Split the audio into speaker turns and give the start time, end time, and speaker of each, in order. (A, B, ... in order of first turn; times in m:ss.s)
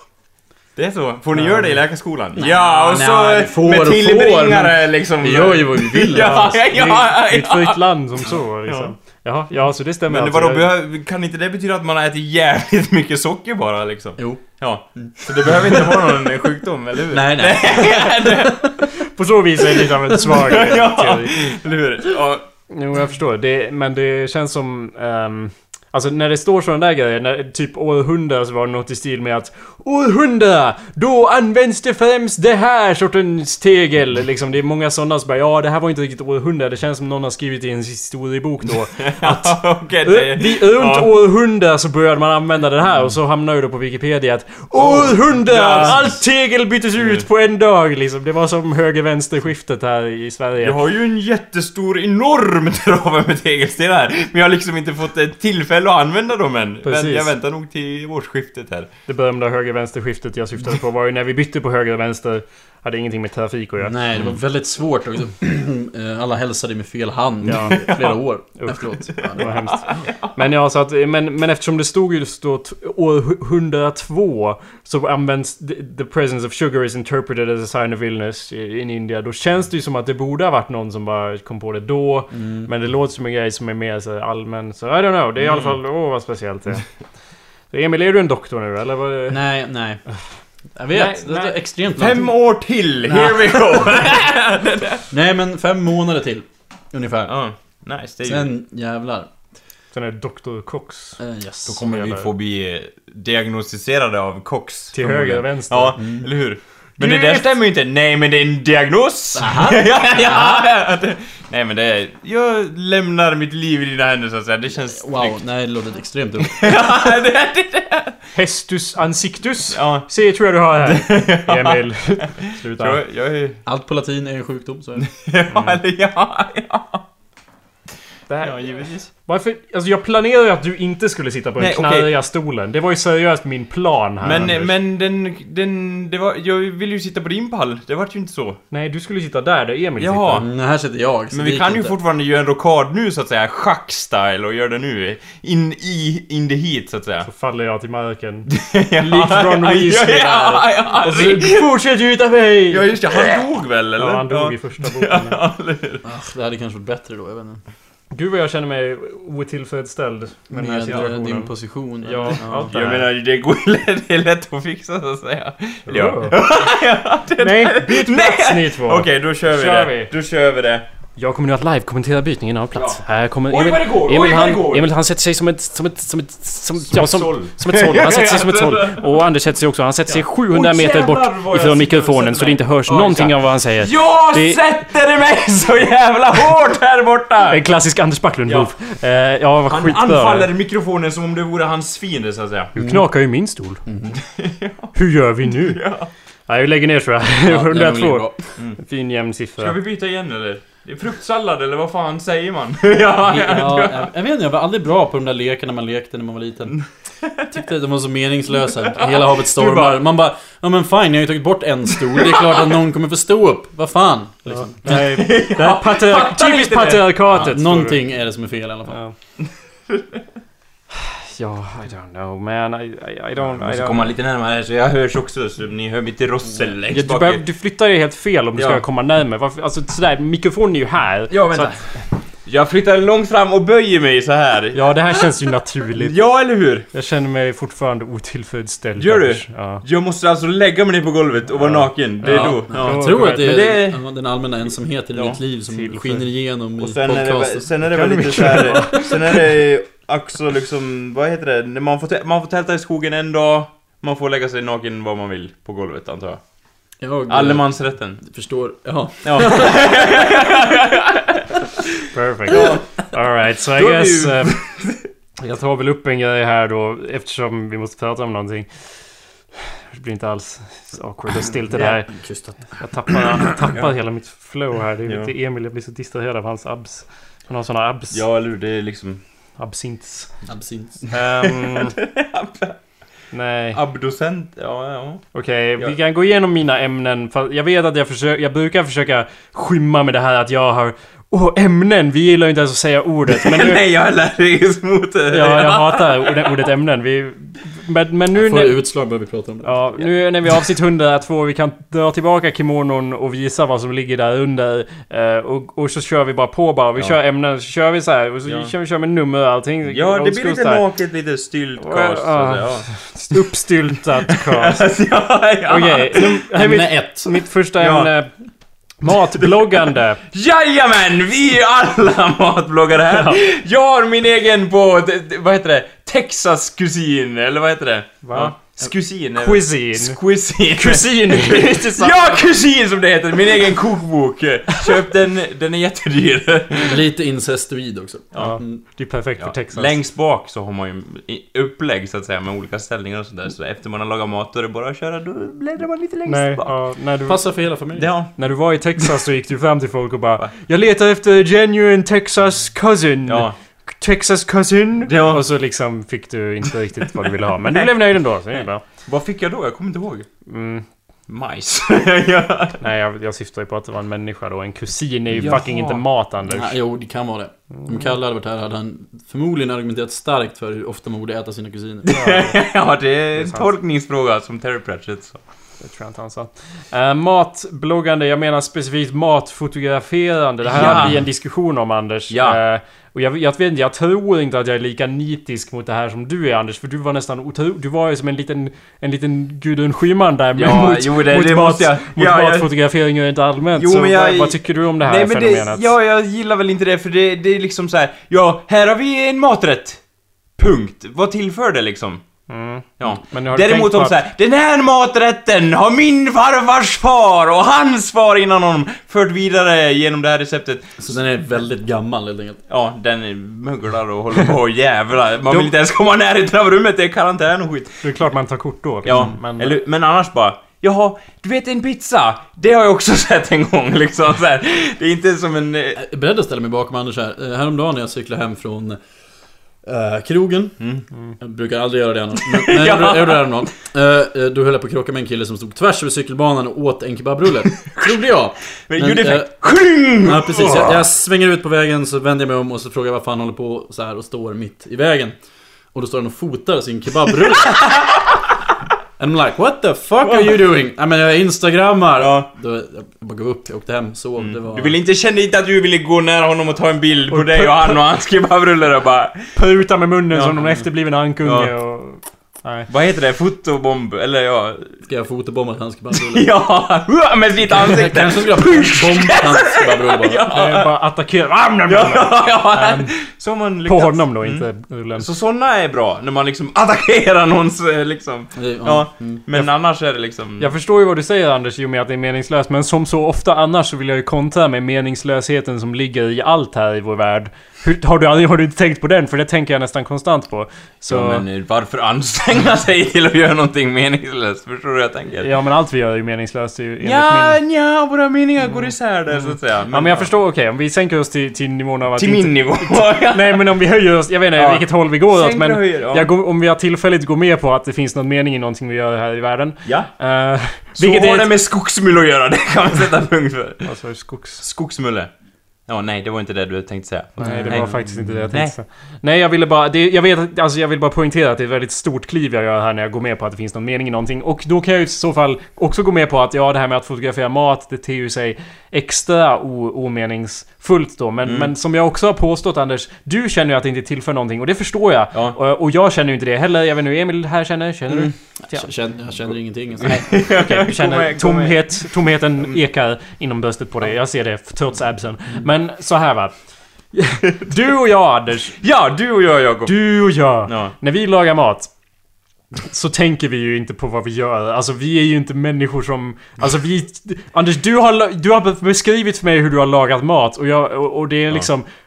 0:00.8-0:07.8 A
0:02.4-0:06.6 B
0:06.2-0:10.7 C
0:10.1-0:18.8 A
0:14.2-0:14.4 B
0:15.0-0:16.3 B
0:17.1-0:18.8 B
0:19.0-0:21.3 C
0:20.2-0:22.5 A
0:22.7-0:50.8 C
0:39.0-0:41.1 A
0:44.7-0:46.1 A
0:50.6-0:58.9 A
0:56.8-0:57.3 C
0:59.1-1:04.0 C
1:03.8-1:09.6 B
1:07.4-1:26.8 C
1:09.7-1:10.1 A
1:22.3-1:22.7 B
1:25.4-1:25.7 A
1:27.7-1:29.4 C
1:29.3-1:30.0 B
1:30.8-1:32.3 B
1:30.9-1:31.5 C
1:32.0-1:35.0 A
1:33.0-1:33.9 B
1:35.1-1:37.3 B
1:37.3-1:38.5 A
1:38.2-1:39.3 B
1:39.9-1:41.2 C
1:41.2-1:41.8 B
1:41.6-1:55.4 A
1:41.8-1:42.3 C
1:44.9-1:46.0 C
1:46.0-1:46.3 B
1:47.0-1:47.5 C
1:49.3-1:50.7 B
1:54.8-1:57.0 B
1:56.4-1:58.2 A
1:58.3-2:03.0 C
1:59.7-2:00.1 A
2:00.8-2:03.6 A
2:03.6-2:05.1 B
2:05.0-2:07.0 A
2:05.5-2:05.8 C
2:08.3-2:14.7 C
2:08.4-2:09.1 A
2:11.6-2:12.1 A
2:14.2-2:18.6 A
2:18.7-2:20.4 C
2:20.0-2:20.5 A
2:20.3-2:21.9 B
2:21.3-2:27.3 A
2:27.2-2:32.9 C
2:28.5-2:31.7 A
2:32.7-2:36.0 A
2:34.0-2:35.4 C
2:36.0-2:37.6 B
2:38.1-2:41.5 C
2:40.5-2:42.6 B
2:42.0-2:43.1 C
2:42.3-2:50.8 A
2:45.9-2:46.4 C
2:47.4-2:50.1 C
2:51.2-3:04.6 C
2:52.7-2:54.9 A
2:56.8-2:59.2 A
3:00.1-3:07.6 A
3:07.5-3:10.5 C
3:09.7-3:12.7 A
3:12.7-3:13.8 C
3:12.8-3:13.0 B
3:13.8-3:14.2 B
3:14.2-3:14.9 A
3:14.9-3:15.8 C
3:15.5-3:16.1 A
3:16.5-3:19.8 C
3:17.4-3:18.4 B
3:19.6-3:24.1 A
3:23.2-3:26.8 B
3:26.8-3:27.5 A
3:27.4-3:35.0 B
3:28.9-3:29.2 A
3:29.6-3:29.9 C
3:32.2-3:32.6 A
3:34.5-3:38.0 C
3:34.9-3:37.4 A
3:37.3-3:39.0 B
3:39.9-3:40.2 A
3:41.0-3:44.1 C
3:43.4-3:47.4 A
3:46.9-3:51.8 C
3:48.6-3:48.8 A
3:51.3-3:55.2 A
3:54.7-3:56.2 C
3:56.0-3:56.9 A
3:56.9-3:59.8 C
3:59.0-4:04.0 A
4:02.2-4:03.6 C
4:02.2-4:07.7 B
4:05.1-4:05.4 A
4:05.7-4:06.2 C
4:06.8-4:16.4 A
4:07.9-4:09.4 C
4:17.0-4:20.6 B
4:17.3-4:18.2 A
4:19.2-4:21.5 A
4:22.1-4:24.6 C
4:22.5-4:22.8 A
4:22.5-4:22.8 B
4:23.8-4:24.5 B
4:24.6-4:25.0 A
4:25.4-4:28.7 C
4:29.9-4:38.2 C
4:31.7-4:33.5 B
4:35.0-4:35.3 A
4:38.1-4:39.2 A
4:39.6-4:40.3 C
4:40.4-4:41.0 B
4:41.1-4:42.8 A
4:41.1-4:41.9 C
4:43.3-4:43.8 C
4:43.7-4:45.2 A
4:45.3-4:53.8 C
4:53.3-4:56.6 A
4:55.3-4:58.8 C
4:58.3-4:59.9 B
4:59.6-5:10.8 C
5:08.4-5:08.7 A
5:09.8-5:13.4 A
5:11.8-5:14.9 C
5:14.2-5:16.4 A
5:15.6-5:18.3 C
5:16.5-5:17.4 B
5:17.8-5:18.1 A
5:19.0-5:20.2 C
5:19.4-5:19.8 A
5:20.3-5:37.0 A
5:23.1-5:23.4 C
5:28.2-5:28.6 C
5:29.4-5:32.3 C
5:36.8-5:38.8 B
5:38.4-5:39.9 C
5:39.4-5:46.7 A
5:46.2-5:47.4 C
5:47.3-5:48.1 B
5:47.9-5:48.3 A
5:48.4-5:58.8 C
5:53.3-5:53.5 A
5:55.0-5:55.4 A
5:59.0-6:00.3 A
6:00.5-6:00.8 C
6:01.3-6:02.8 A
6:02.8-6:06.8 C
6:05.3-6:06.0 A
6:06.5-6:12.1 B
6:12.0-6:15.4 A
6:12.1-6:12.6 C
6:13.4-6:13.7 C
6:15.8-6:35.9 C
6:20.6-6:21.2 A
6:22.3-6:22.6 A
6:30.6-6:32.7 A
6:33.8-6:40.0 A
6:40.6-6:42.2 A
6:42.5-6:44.2 C
6:43.0-6:50.9 A
6:51.0-6:52.6 B
6:52.7-6:57.9 A
6:58.0-6:59.8 C
6:59.0-7:06.0 A
7:06.0-7:09.0 B
7:09.8-7:10.9 B
7:11.4-7:25.4 B
7:12.5-7:13.6 A
7:17.8-7:18.2 A
7:18.9-7:21.0 A
7:25.9-7:28.2 B
7:27.4-7:28.2 A
7:29.2-7:34.9 B
7:30.2-7:30.6 A
7:32.2-7:32.5 A
7:34.4-7:39.5 A
7:37.3-7:38.0 C
7:39.5-7:42.9 C
7:40.3-7:40.6 A
7:41.4-7:41.7 A
7:42.9-7:44.9 A
7:45.0-7:46.5 B
7:46.1-7:51.0 A
7:47.8-7:50.4 B
7:50.4-7:53.1 C
7:51.9-8:00.7 A
7:53.8-7:55.3 C
7:58.6-7:59.4 B
8:00.6-8:11.4 C
8:11.1-8:15.5 A
8:15.4-8:17.6 C
8:17.0-8:20.3 A
8:19.3-8:31.5 C
8:22.2-8:23.6 A
8:24.5-8:26.3 A
8:31.0-8:33.9 A
8:33.8-8:34.6 C
8:34.6-8:35.3 A
8:35.9-8:37.9 A
8:37.4-8:58.9 C
8:37.5-8:38.4 B
8:51.4-8:51.7 A
8:58.7-9:00.2 B
9:00.0-9:02.1 A
9:00.1-9:06.5 C
9:07.1-9:08.8 C
9:08.8-9:09.9 A
9:09.8-9:11.9 C
9:10.6-9:10.9 A
9:12.8-9:21.8 C